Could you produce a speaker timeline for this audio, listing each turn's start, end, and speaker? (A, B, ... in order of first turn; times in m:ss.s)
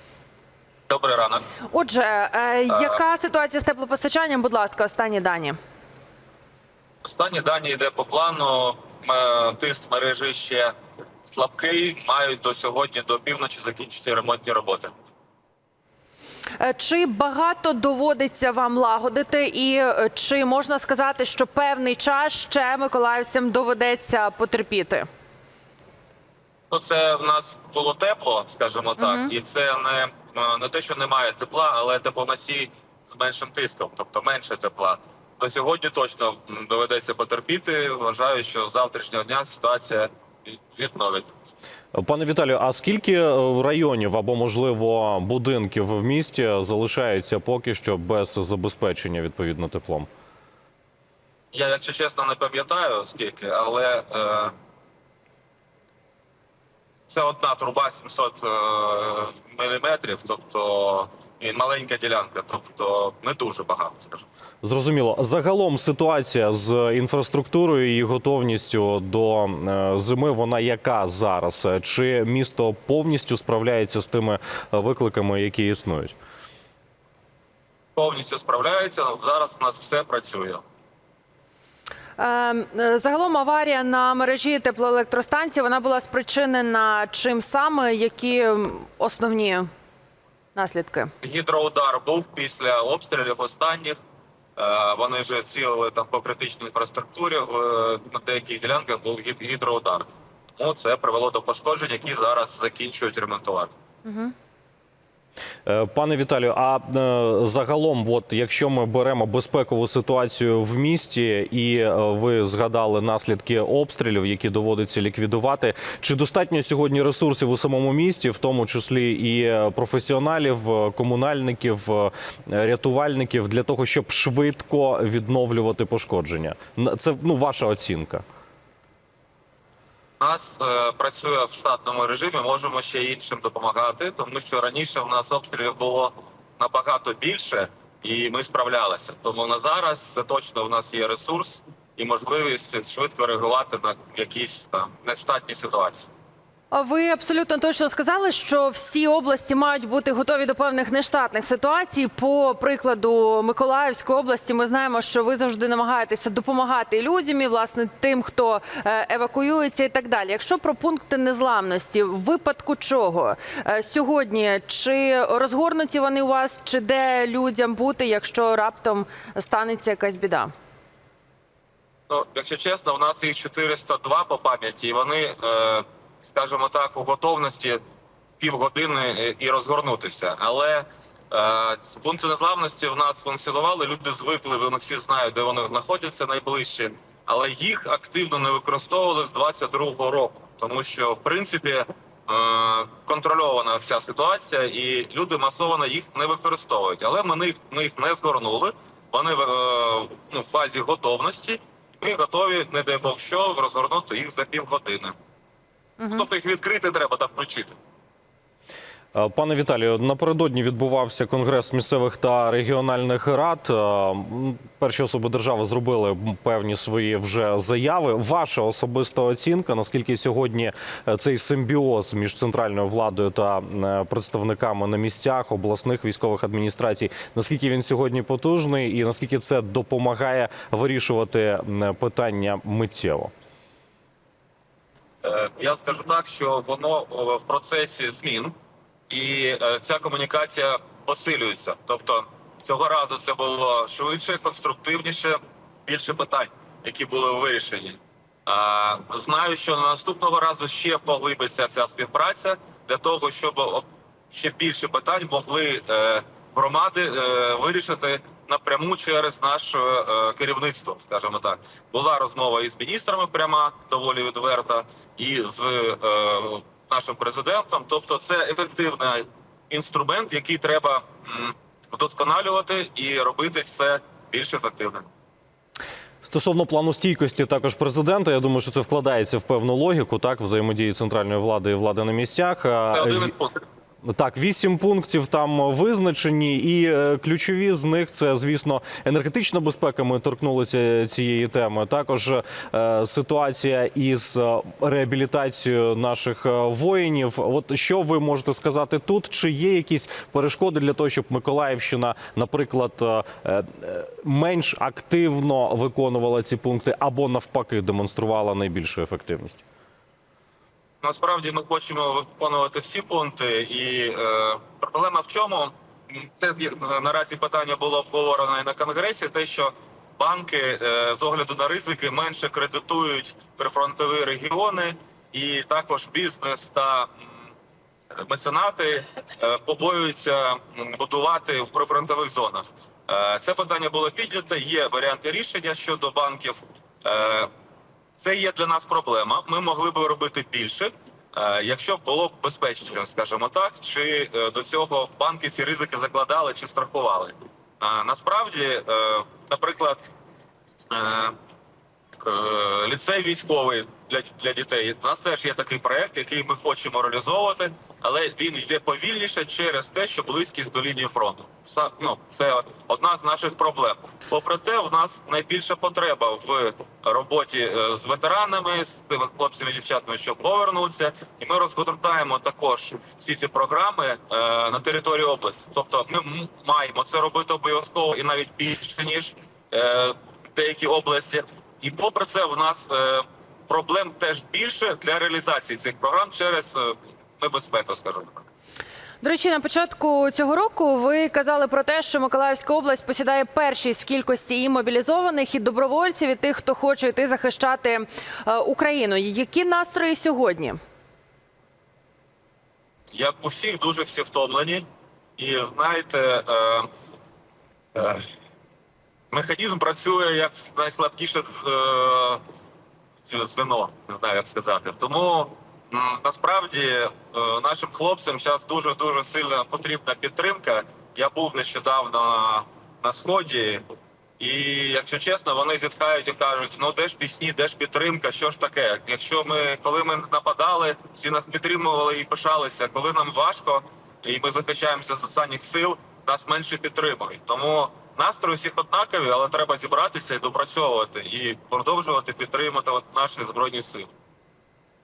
0:00.9-0:01.5 A
0:01.7-0:05.6 B
0:02.7-0:03.0 A
0:07.0-0:10.7 A
0:11.2-0:14.9 A
0:16.6-0:25.1 B
0:26.7-0:41.3 A
0:29.0-0:29.3 B
0:41.9-0:50.1 C
0:51.5-0:54.5 A
0:57.1-1:04.2 A
1:04.6-1:16.1 C
1:17.9-1:20.6 A
1:22.2-1:29.7 B
1:30.5-1:31.1 B
1:31.2-1:34.0 A
1:34.6-1:43.7 A
1:44.0-1:44.3 B
1:45.6-2:08.2 C
2:10.2-2:26.1 A
2:26.7-2:50.5 B
2:52.1-2:57.8 A
2:58.4-3:25.1 A
3:26.0-3:26.3 B
3:26.1-3:27.7 A
3:29.1-3:53.3 C
3:55.2-3:58.5 A
3:59.1-4:35.1 A
4:36.2-4:43.3 C
4:42.9-4:43.6 A
4:44.0-5:09.6 C
5:11.0-5:27.5 A
5:28.2-5:37.5 A
5:38.1-5:50.1 A
5:50.9-5:51.4 A
5:52.2-6:28.4 A
6:29.2-6:40.8 B
6:43.1-6:44.8 A
6:45.4-6:46.9 A
6:47.9-6:48.2 A
6:49.3-6:52.4 A
6:53.2-7:03.8 A
7:04.4-7:24.1 A